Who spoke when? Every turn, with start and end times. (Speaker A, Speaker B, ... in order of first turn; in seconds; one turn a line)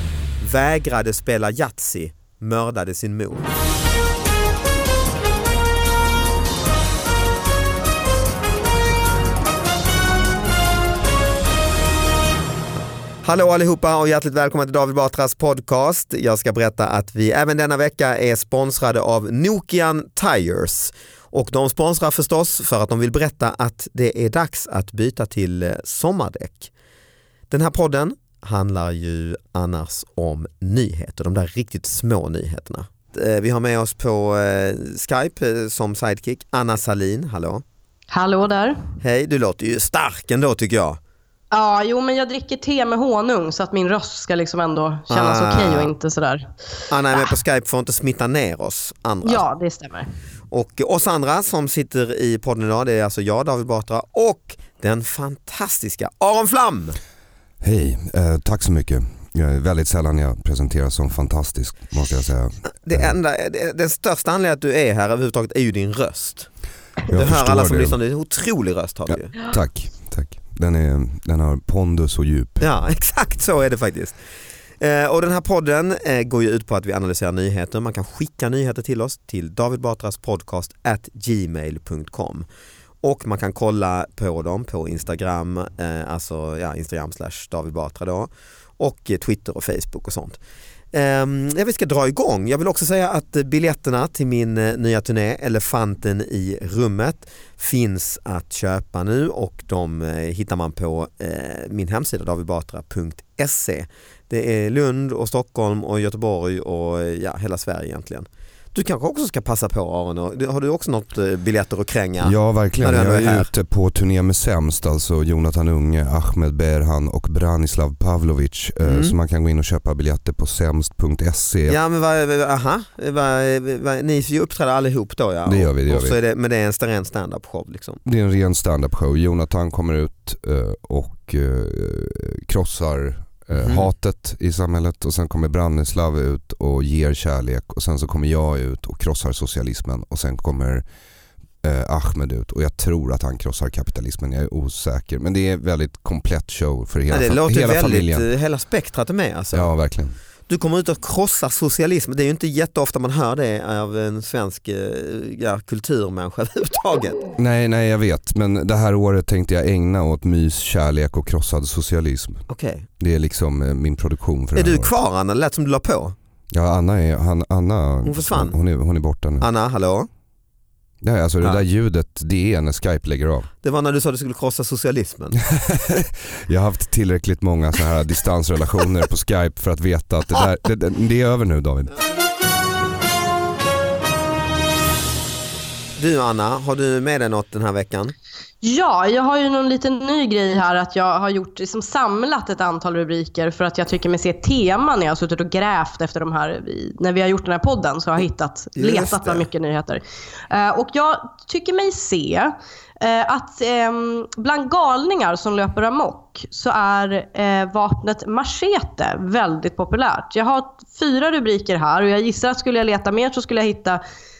Speaker A: 0.4-3.5
Speaker A: 13.2-26.7
Speaker A: 27.5-37.6
Speaker B: 38.1-38.8
Speaker A: 39.0-41.0
Speaker B: 41.5-46.5
Speaker A: 45.1-45.9
Speaker A: 46.9-49.5
Speaker B: 49.2-50.1
Speaker A: 50.5-57.0
Speaker C: 57.6-63.1
Speaker A: 62.8-66.5
Speaker A: 67.1-69.5
Speaker C: 67.1-68.0
Speaker C: 69.1-72.7
Speaker A: 72.6-74.2
Speaker A: 74.8-82.4
Speaker A: 83.0-90.4
Speaker A: 90.9-113.5
Speaker C: 112.2-121.8
Speaker A: 118.8-119.2
Speaker A: 121.7-128.0
Speaker C: 125.5-126.2
Speaker C: 128.0-140.8
Speaker A: 133.5-133.9
Speaker C: 141.6-148.2
Speaker A: 147.1-149.7
Speaker C: 149.5-150.2
Speaker A: 150.5-157.2
Speaker C: 157.4-162.4
Speaker A: 162.5-162.9
Speaker C: 163.0-164.9
Speaker A: 164.5-166.1
Speaker C: 166.5-169.5
Speaker A: 168.0-168.6
Speaker A: 169.4-170.1
Speaker C: 171.0-173.5
Speaker A: 173.6-175.4
Speaker C: 175.5-181.9
Speaker A: 186.0-188.1
Speaker B: 188.6-214.0
Speaker A: 198.8-199.5